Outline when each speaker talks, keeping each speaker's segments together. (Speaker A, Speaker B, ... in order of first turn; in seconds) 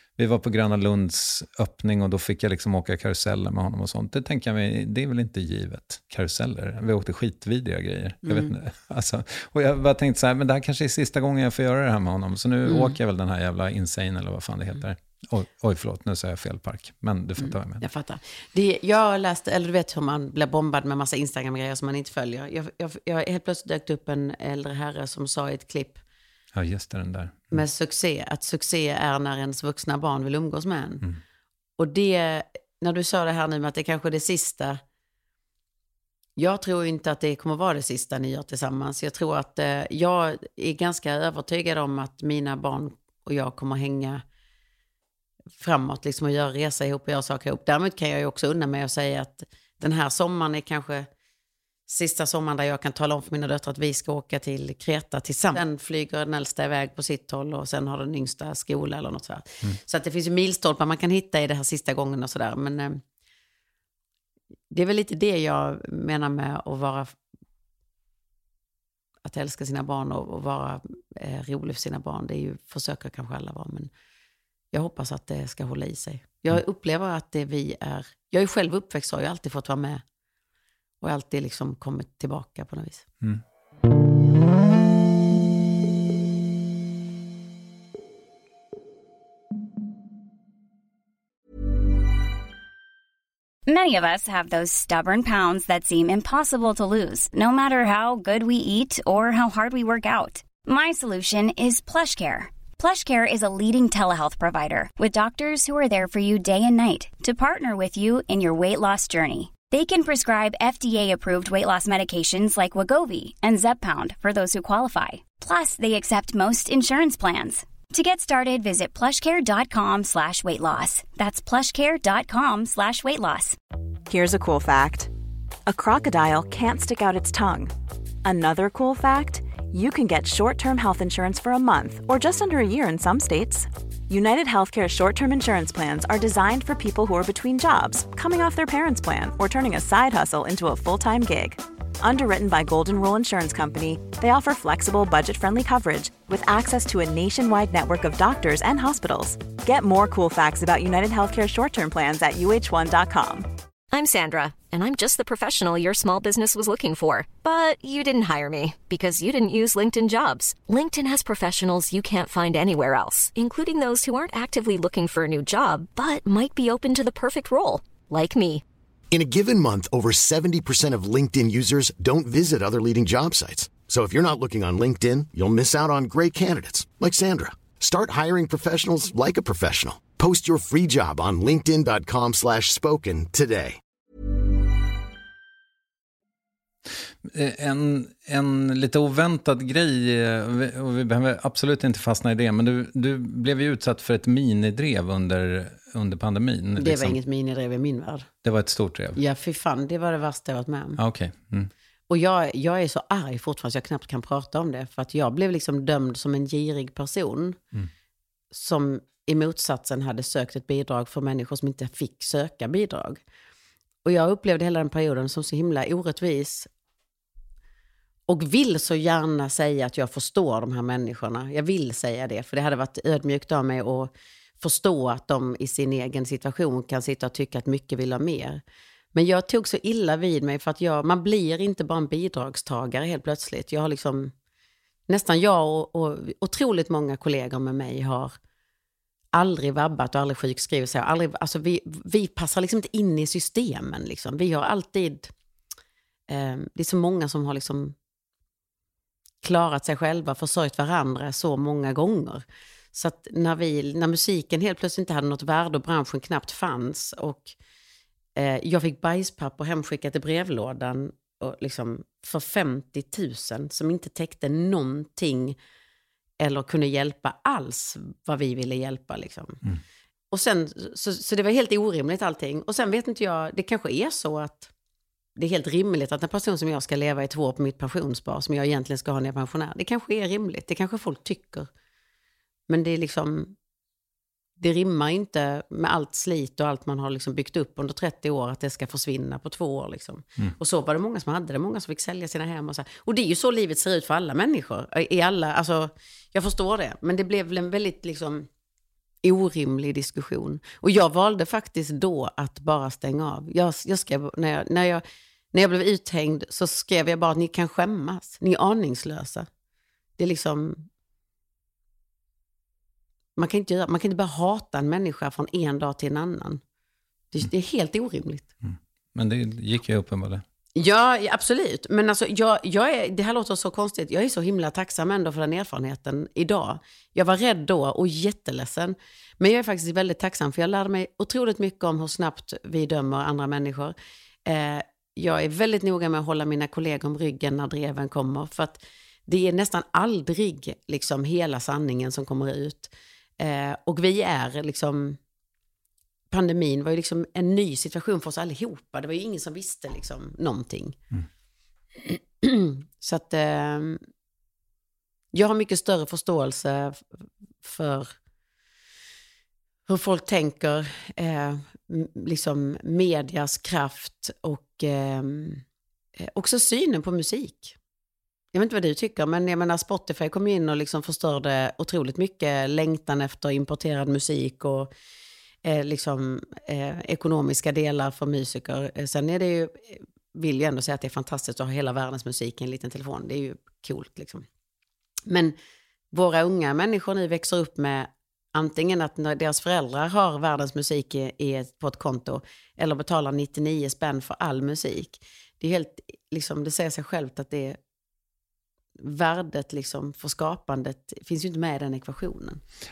Speaker A: 0.2-17.8, 26.5-27.6, 187.2-197.2, 198.4-199.2, 201.0-201.7, 318.6-320.4
Speaker B: 8.2-8.5, 12.7-12.9, 17.4-26.0, 27.5-31.1, 31.8-34.8, 36.4-44.2, 45.6-51.1, 51.9-63.0, 64.7-67.2, 69.2-73.9, 74.7-80.0, 81.0-83.0, 196.8-198.3, 199.2-201.0, 202.1-207.6, 208.5-213.2, 214.0-216.7, 218.3-228.6, 229.1-234.3, 235.1-238.3, 239.3-245.3, 246.3-247.9, 249.4-257.5, 258.4-265.6, 266.4-269.6, 270.3-274.7, 275.4-281.7, 282.7-283.5, 284.6-298.5, 299.2-309.5, 310.2-310.9, 313.4-316.6, 317.3-318.5, 320.7-333.9, 334.4-345.2, 346.3-351.0, 351.9-354.0, 355.3-357.1, 357.6-358.1, 359.9-365.6, 366.2-367.7, 368.5-374.9, 375.6-384.4, 385.3-385.5, 386.1-397.8, 399.0-402.6
Speaker C: 93.7-123.6
Speaker D: 124.1-125.1, 125.7-127.7, 128.2-153.5
Speaker E: 153.9-168.6
Speaker F: 169.1-183.8